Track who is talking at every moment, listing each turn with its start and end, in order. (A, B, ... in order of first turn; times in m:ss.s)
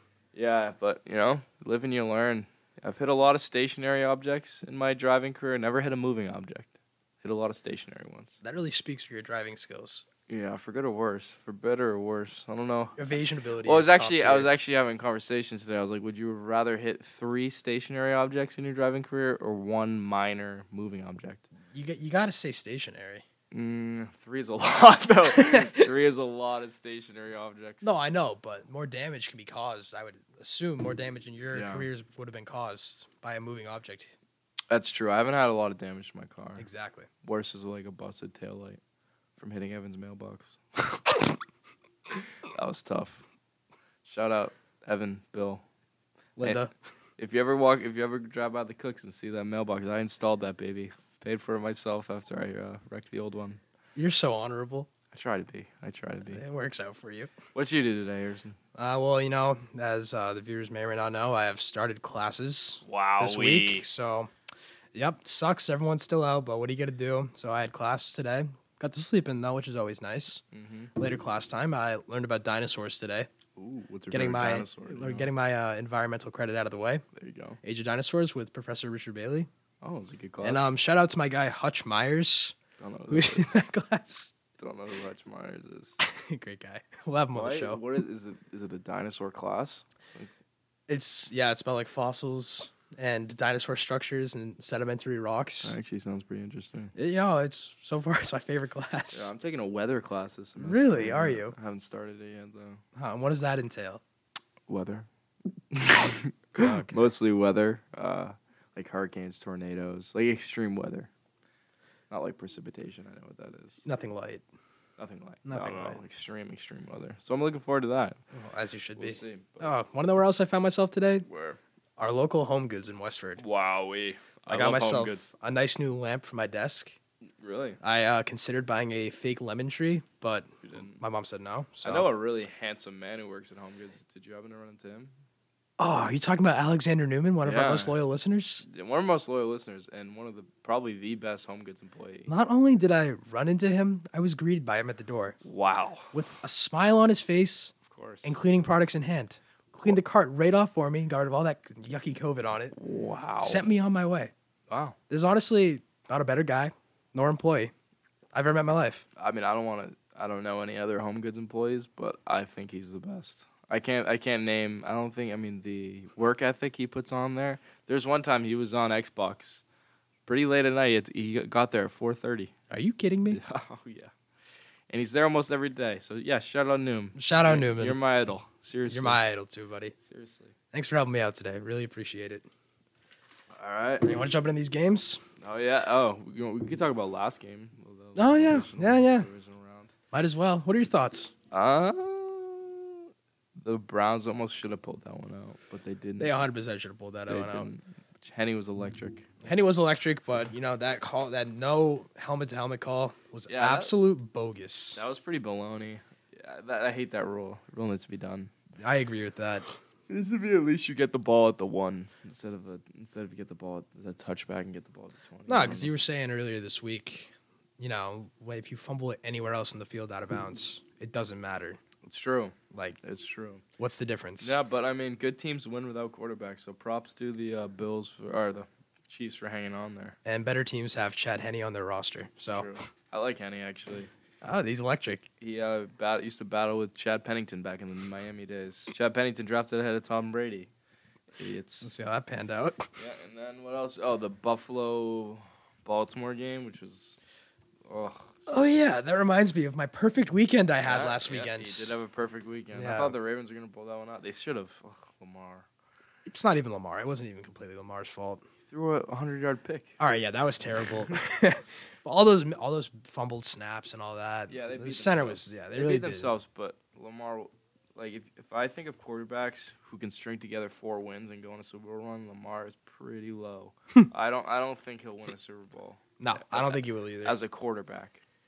0:00.3-0:08.4 A
0:08.4-0:10.0 B
0:10.3-0:13.1 A
0:13.0-0:14.5 B
0:13.6-0:21.5 A
0:21.7-0:23.2 B
0:23.5-0:27.9 A
0:25.3-0:25.9 B
0:27.8-0:34.1 B
0:31.5-0:31.9 A
0:34.7-0:36.6 A
0:36.6-0:37.1 B
0:37.2-0:38.8 A
0:39.4-0:41.4 A
0:42.1-0:43.2 A
0:44.0-0:45.6 A
0:46.4-0:46.7 B
0:47.2-0:53.6 A
0:54.0-0:54.9 B
0:55.1-0:56.4 A
0:56.3-0:57.3 B
0:57.5-0:58.6 A
0:58.8-1:04.3 B
1:02.8-1:03.8 A
1:04.9-1:10.4 B
1:10.5-1:10.9 A
1:11.0-1:13.3 B
1:13.6-1:15.3 A
1:14.1-1:17.0 B
1:17.1-1:17.6 A
1:17.6-1:19.5 B
1:19.8-1:20.7 A
1:20.4-1:22.6 B
1:22.8-1:23.4 A
1:23.1-1:24.4 B
1:24.6-1:26.0 A
1:26.0-1:27.8 B
1:27.3-1:30.3 A
1:30.9-1:35.7 B
1:35.6-1:36.9 A
1:37.0-1:39.3 B
1:39.1-1:42.8 A
1:40.6-1:41.6 B
1:42.9-1:44.0 B
1:44.7-1:45.1 A
1:45.7-1:51.1 A
1:46.6-1:47.1 B
1:52.1-1:53.9 A
1:53.8-1:54.4 B
1:55.0-1:58.2 A
1:55.4-1:56.0 B
1:58.3-2:01.2 B
1:59.0-1:59.7 A
2:01.2-2:01.6 A
2:02.0-2:03.4 B
2:03.4-2:05.3 A
2:04.5-2:07.0 B
2:07.4-2:07.8 A
2:07.8-2:12.1 B
2:10.6-2:11.0 A
2:11.8-2:15.1 A
2:15.8-2:18.6 B
2:17.4-2:18.0 A
2:18.6-2:22.3 A
2:22.3-2:25.4 B
2:25.4-2:26.1 A
2:26.1-2:32.7 B
2:27.8-2:28.3 A
2:32.7-2:33.6 A
2:33.4-2:34.3 B
2:34.7-2:35.0 A
2:35.1-2:37.7 B
2:38.3-2:39.0 B
2:39.2-2:49.6 A
2:50.2-2:52.5 A
2:52.7-2:53.4 B
2:53.3-2:54.1 A
2:54.9-2:59.2 A
2:57.2-2:58.0 B
2:58.9-2:59.9 B
3:00.0-3:00.5 A
3:00.7-3:02.4 B
3:03.5-3:04.3 A
3:04.0-3:05.2 B
3:05.4-3:09.9 A
3:08.2-3:09.3 B
3:10.1-3:11.3 B
3:11.5-3:13.1 A
3:13.6-3:16.4 A
3:16.2-3:17.7 B
3:17.3-3:19.3 A
3:19.4-3:25.0 B
3:23.5-3:23.9 A
3:24.9-3:28.5 A
3:28.8-3:29.6 B
3:30.1-3:35.9 A
3:35.5-3:41.8 B
3:42.0-3:43.6 A
3:42.7-3:43.0 B
3:43.8-3:44.6 B
3:44.4-3:50.2 A
3:50.2-3:52.7 B
3:52.5-3:54.1 A
3:54.4-3:55.3 B
3:55.4-4:00.7 A
4:01.4-4:01.9 A
4:01.8-4:02.9 B
4:03.0-4:07.2 A
4:07.8-4:08.8 A
4:08.5-4:12.0 B
4:10.8-4:15.6 A
4:12.7-4:13.2 B
4:16.2-4:18.4 B
4:18.7-4:20.0 A
4:20.0-4:26.3 B
4:24.5-4:38.2 A
4:36.2-4:37.4 B